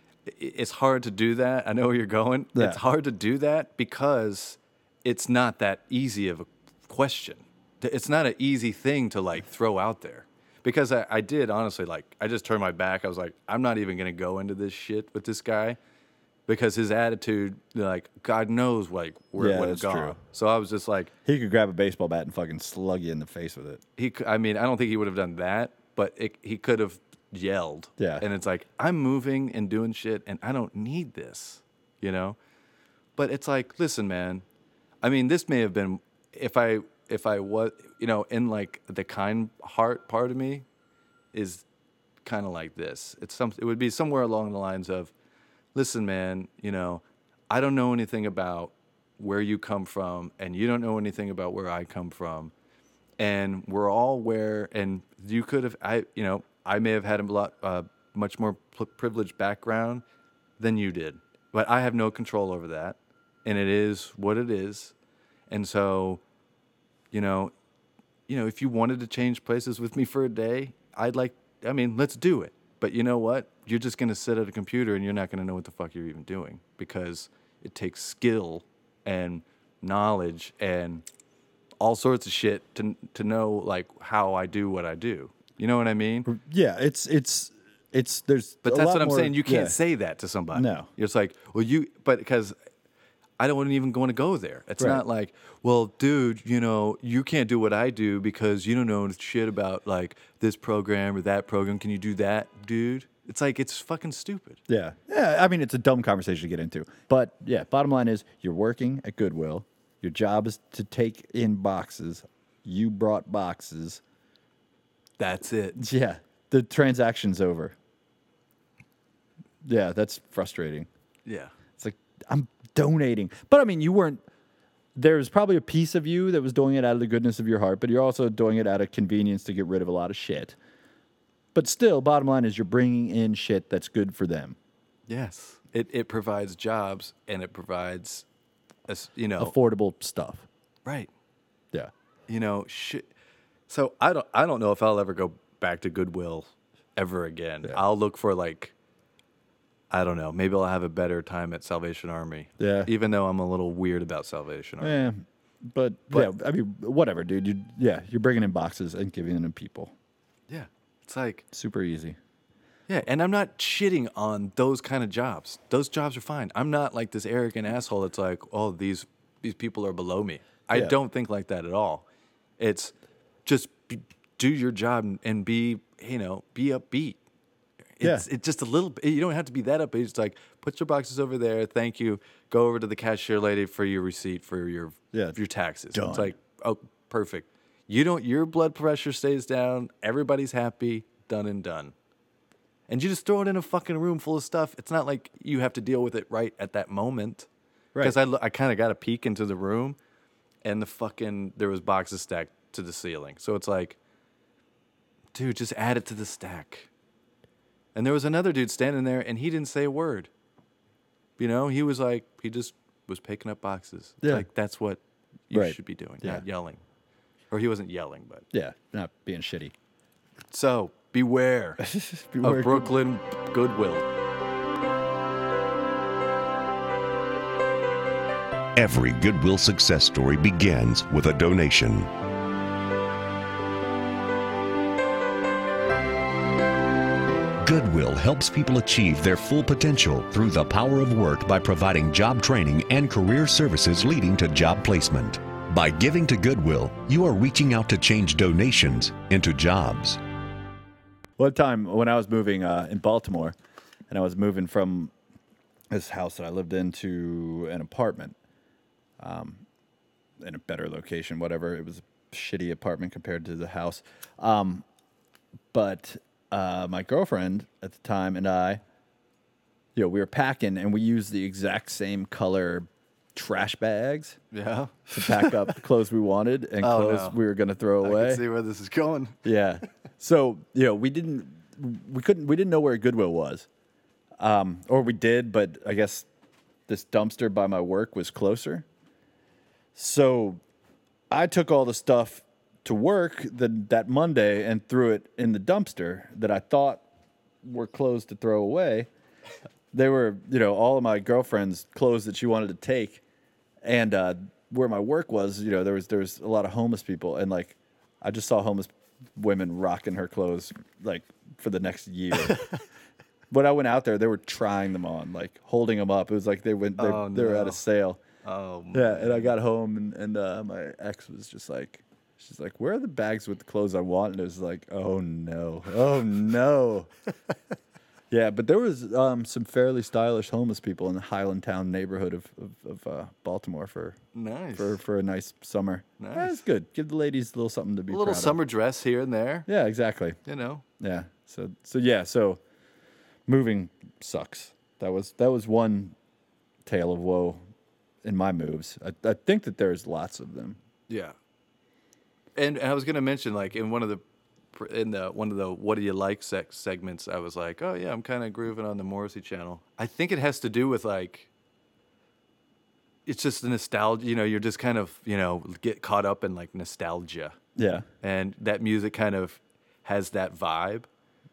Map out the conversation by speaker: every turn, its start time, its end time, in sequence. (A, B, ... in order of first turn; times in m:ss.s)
0:00.2-0:15.8 A
0:02.5-0:02.8 B
0:16.5-0:21.1 A
0:19.4-0:20.2 B
0:21.2-0:23.8 B
0:24.0-0:32.4 A
0:28.0-0:28.2 B
0:33.2-0:34.4 A
0:35.0-0:40.6 A
0:41.3-0:41.6 A
0:42.2-0:45.1 A
0:45.7-0:52.5 A
0:53.2-1:00.0 A
1:00.6-1:04.9 A
1:05.5-1:06.2 A
1:07.1-1:07.5 A
1:08.3-1:21.0 A
1:21.8-1:26.3 A
1:26.2-1:29.8 B
1:28.6-1:32.5 A
1:30.5-1:30.9 B
1:33.4-1:44.6 A
1:44.7-1:54.0 B
1:55.2-1:55.8 A
1:55.8-1:57.7 B
1:59.6-2:00.9 B
2:01.2-2:01.5 A
2:01.8-2:04.2 B
2:04.9-2:10.6 B
2:11.5-2:14.6 B
2:15.1-2:18.2 A
2:18.9-2:19.5 A
2:19.4-2:20.5 B
2:22.3-2:23.1 A
2:23.7-2:28.7 A
2:29.9-2:35.1 A
2:32.6-2:32.9 B
2:34.8-2:39.9 B
2:40.5-2:41.4 A
2:41.5-2:42.2 B
2:42.9-2:52.0 A
2:52.6-2:52.9 A
2:53.4-2:57.2 A
2:58.0-3:11.9 A
2:58.0-2:58.2 B
3:05.1-3:05.4 B
3:05.9-3:06.3 B
3:12.9-3:17.5 A
3:18.0-3:20.0 A
3:20.6-3:24.0 A
3:25.3-3:26.9 A
3:27.9-3:30.3 A
3:31.4-3:36.8 A
3:34.2-3:34.5 B
3:35.5-3:36.4 B
3:37.5-3:38.4 A
3:38.5-3:39.7 B
3:40.5-3:41.8 A
3:41.8-3:42.9 B
3:42.4-3:44.0 A
3:48.7-3:52.1 C
3:57.6-4:10.2 C
4:11.4-4:13.5 B
4:14.1-4:15.1 B
4:15.9-4:18.4 B
4:19.2-4:19.6 B
4:20.4-4:24.8 B
4:25.7-4:28.8 B
4:29.9-4:34.4 B
4:34.5-4:35.8 A
4:35.1-4:38.4 B
4:36.8-4:37.4 A
4:38.0-4:39.4 A
4:39.4-4:43.7 B
4:44.4-4:46.3 B
4:46.9-4:48.8 B
4:49.9-4:50.6 B
4:51.3-4:57.0 B
4:57.6-4:59.1 B
4:59.9-5:03.2 B
5:03.8-5:12.6 B
5:12.5-5:12.8 A
5:13.5-5:18.2 B
5:17.0-5:17.8 A
5:18.4-5:19.5 A
5:18.9-5:27.1 B
5:28.3-5:34.2 B
5:34.3-5:35.0 A
5:34.7-5:38.6 B
5:36.2-5:36.6 A
5:38.1-5:39.7 A
5:39.7-5:40.4 B
5:40.4-5:40.8 A
5:41.0-5:42.6 B
5:43.5-5:46.1 B
5:46.8-5:47.6 B
5:48.2-5:50.8 B
5:51.1-5:51.3 A
5:52.6-5:54.2 A
5:54.7-6:01.5 A
6:03.2-6:07.6 A
6:07.8-6:08.0 B
6:08.2-6:11.1 A